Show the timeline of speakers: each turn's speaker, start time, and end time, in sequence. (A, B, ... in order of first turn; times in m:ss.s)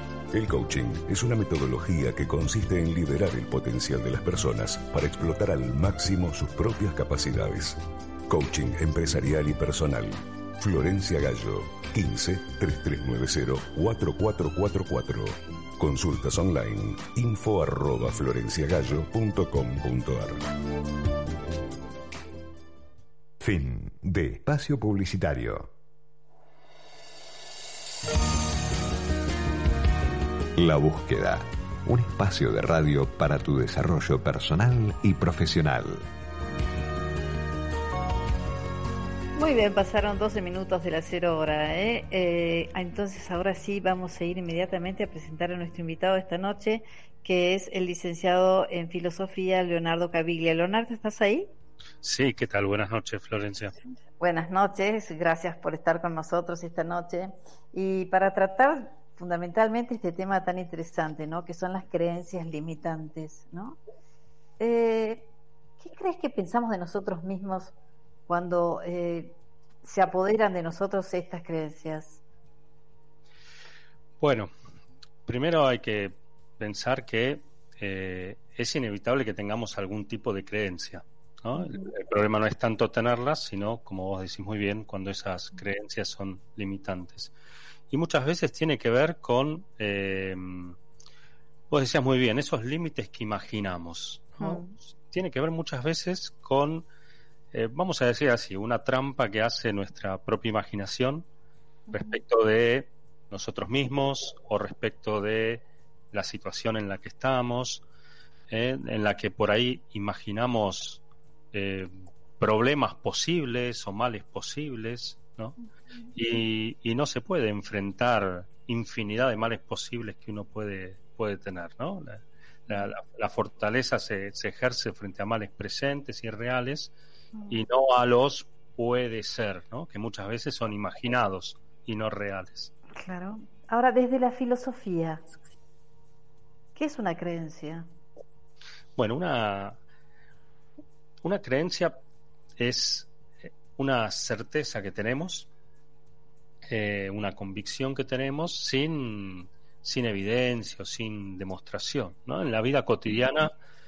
0:00.3-0:20.4 A
0:23.4-0:25.7 B
0:30.6-0:36.1 B
0:39.4-0:51.5 C
0:52.0-0:53.8 D
0:54.2-1:03.8 C
1:04.6-1:07.7 C
1:08.3-1:12.2 C
1:14.2-1:14.5 D
1:15.3-1:27.3 D
1:27.9-1:30.8 D
1:31.7-1:36.9 D
1:34.4-1:34.8 C
1:37.5-1:41.3 D
1:41.9-1:42.2 C
1:41.9-1:47.8 D
1:48.5-1:51.0 D
1:51.5-1:55.6 D
1:56.2-2:06.9 D
2:07.3-2:07.6 C
2:07.5-2:12.7 D
2:12.9-2:15.3 C
2:16.8-2:17.9 C
2:19.0-2:19.8 D
2:21.2-2:22.0 D
2:22.6-2:25.5 D
2:26.6-2:33.5 D